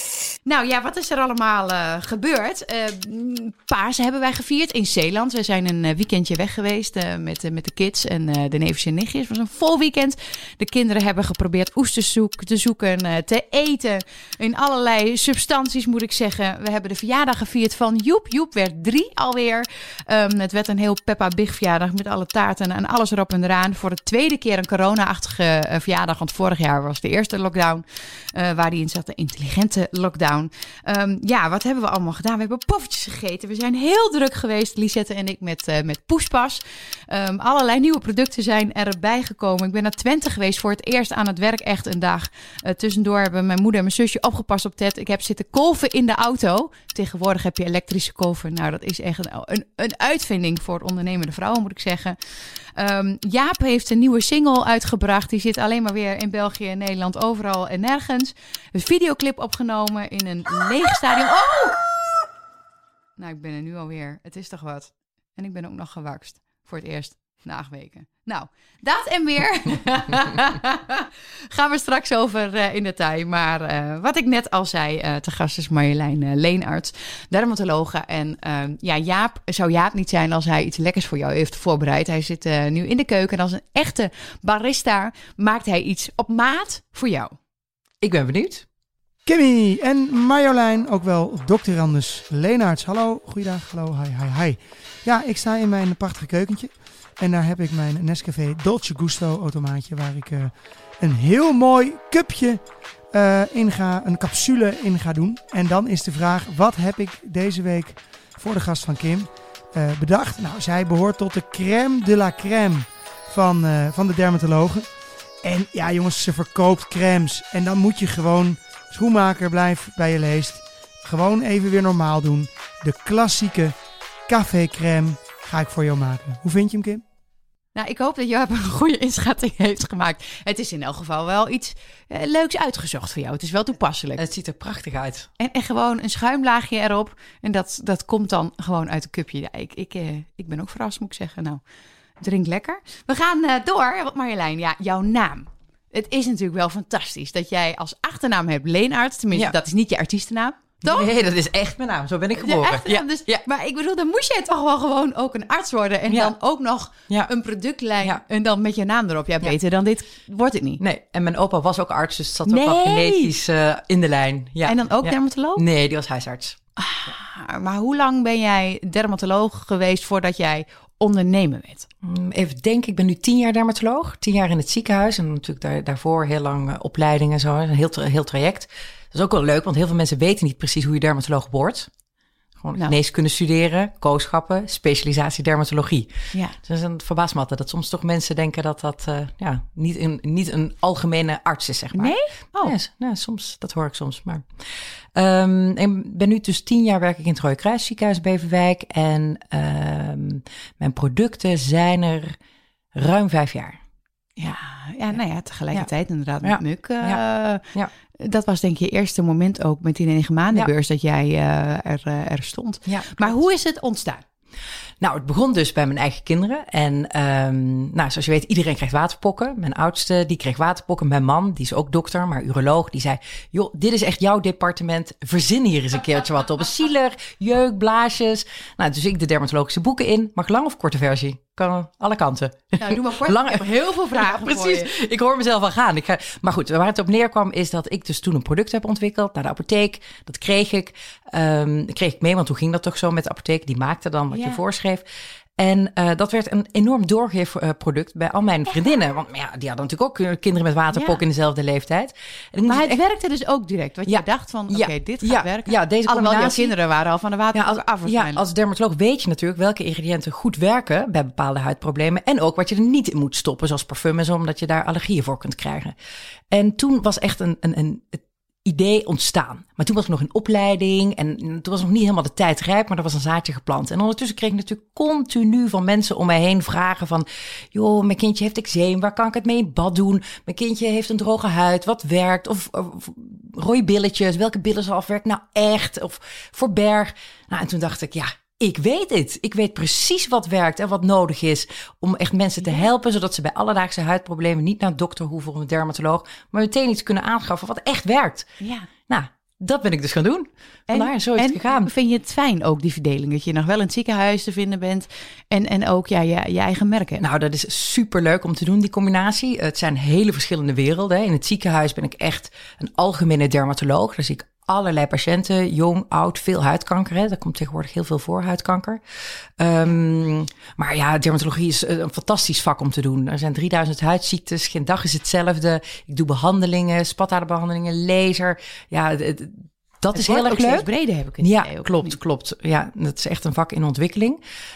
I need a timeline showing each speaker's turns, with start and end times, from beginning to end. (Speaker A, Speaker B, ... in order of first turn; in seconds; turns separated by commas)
Speaker A: 0.5-61.8, Speaker A: 63.2-87.3, Speaker B: 88.0-88.7, Speaker C: 89.3-123.8, Speaker C: 124.3-127.0, Speaker A: 127.8-134.2, Speaker B: 134.2-135.3, Speaker A: 135.4-141.6, Speaker A: 142.2-151.1, Speaker B: 150.8-153.4, Speaker A: 152.4-160.8, Speaker B: 156.1-156.3, Speaker B: 160.8-166.6, Speaker A: 162.5-163.3, Speaker A: 164.6-165.6, Speaker A: 166.8-171.9, Speaker B: 172.0-181.9, Speaker B: 182.6-194.5, Speaker A: 191.9-192.8, Speaker B: 195.2-202.4, Speaker B: 202.9-203.8, Speaker A: 204.4-207.6, Speaker B: 206.4-207.2, Speaker A: 208.2-214.2, Speaker B: 212.9-213.3, Speaker B: 215.0-245.1, Speaker A: 232.8-234.9, Speaker A: 244.3-244.6, Speaker B: 245.6-253.0, Speaker A: 250.9-251.2, Speaker A: 252.7-258.4, Speaker B: 254.1-256.8, Speaker B: 257.5-265.9, Speaker B: 266.5-298.6, Speaker A: 298.6-298.9, Speaker B: 299.1-301.9, Speaker A: 300.9-307.2, Speaker B: 307.2-319.0, Speaker B: 319.6-330.9, Speaker A: 330.1-332.2, Speaker B: 331.4-334.4